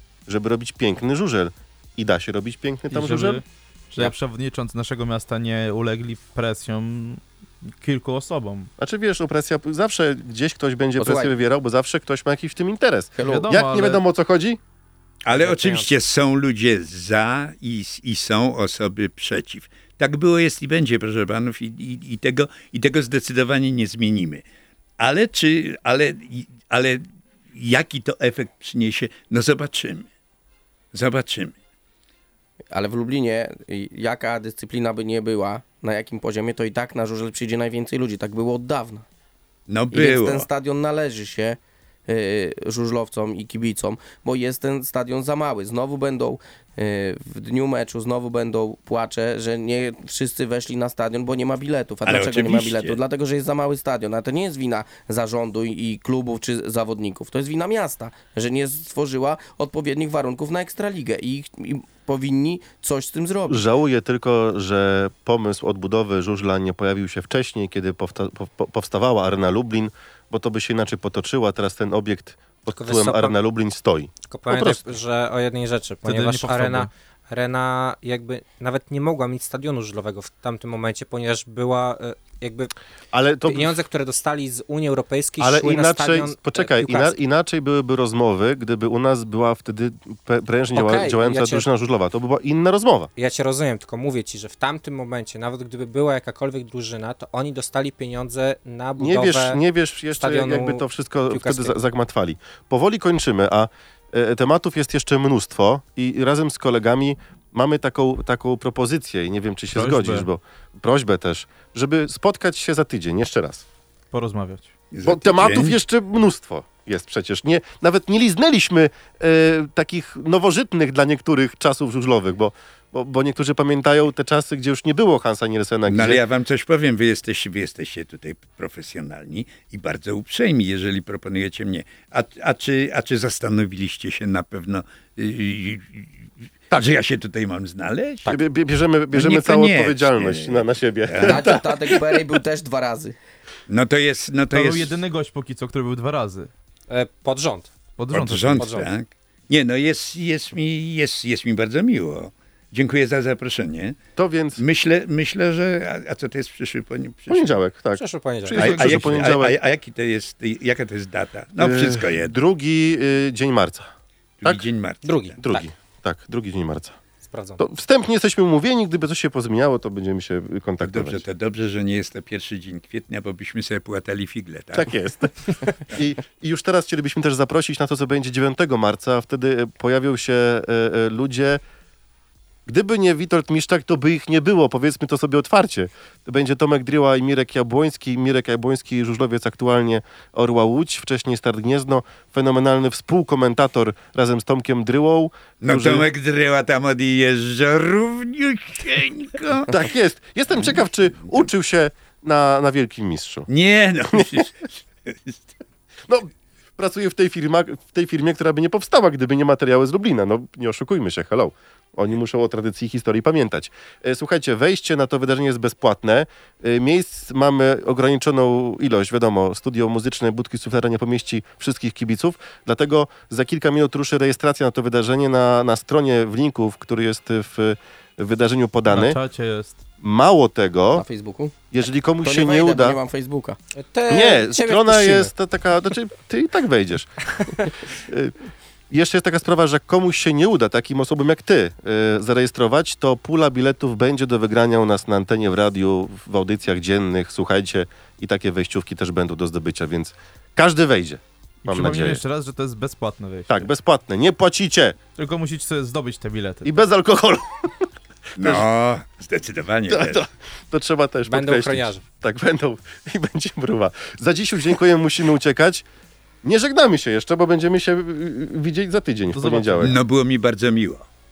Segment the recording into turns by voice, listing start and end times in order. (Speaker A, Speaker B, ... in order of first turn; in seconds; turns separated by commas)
Speaker A: 0.3-3.4, Speaker B: 2.9-8.7, Speaker A: 8.8-14.6, Speaker C: 11.0-11.3, Speaker C: 13.2-13.4, Speaker B: 13.2-14.0, Speaker D: 15.2-24.4, Speaker E: 15.3-15.9, Speaker D: 25.0-30.1, Speaker D: 30.9-31.6, Speaker C: 32.7-39.0, Speaker D: 39.7-40.5, Speaker C: 39.9-63.6, Speaker D: 52.0-53.0, Speaker A: 63.5-74.8, Speaker E: 72.8-73.3, Speaker E: 74.3-82.7, Speaker B: 76.0-76.9, Speaker A: 83.1-83.7, Speaker E: 83.5-87.1, Speaker A: 85.4-93.1, Speaker E: 90.7-91.6, Speaker E: 93.2-99.6, Speaker A: 99.0-113.6, Speaker E: 100.2-101.7, Speaker B: 109.7-110.3, Speaker B: 114.1-114.7, Speaker D: 114.9-115.8, Speaker A: 115.0-126.2, Speaker D: 125.9-138.4, Speaker A: 138.2-141.5, Speaker D: 139.1-142.1, Speaker C: 141.2-143.2, Speaker D: 143.7-144.9, Speaker B: 144.5-146.5, Speaker E: 146.9-147.7, Speaker B: 148.0-148.8, Speaker D: 148.1-154.0, Speaker E: 148.6-148.9, Speaker A: 154.2-154.6, Speaker D: 154.6-157.5, Speaker A: 157.3-159.5, Speaker E: 158.0-158.8, Speaker D: 158.5-162.3, Speaker A: 161.6-163.9, Speaker D: 164.4-165.4, Speaker E: 165.0-165.6, Speaker A: 165.4-166.9, Speaker E: 167.2-167.6, Speaker A: 167.6-171.2, Speaker D: 170.8-174.9, Speaker A: 174.7-181.6, Speaker A: 182.7-196.1, Speaker D: 195.6-199.8, Speaker A: 199.7-203.5, Speaker D: 200.6-201.4, Speaker D: 203.5-205.5, Speaker A: 204.1-204.4, Speaker A: 206.1-229.2, Speaker B: 228.9-229.8, Speaker A: 230.0-231.0, Speaker C: 230.9-231.5, Speaker A: 231.7-233.0, Speaker C: 232.2-233.6, Speaker E: 233.7-235.3, Speaker A: 234.1-238.3, Speaker A: 238.9-252.2, Speaker B: 251.6-253.7, Speaker A: 253.5-255.0, Speaker B: 255.2-256.7, Speaker A: 256.6-258.6, Speaker D: 258.4-260.2, Speaker A: 259.9-265.8, Speaker E: 261.3-262.0, Speaker A: 266.4-269.9, Speaker B: 269.3-269.9, Speaker D: 269.8-271.1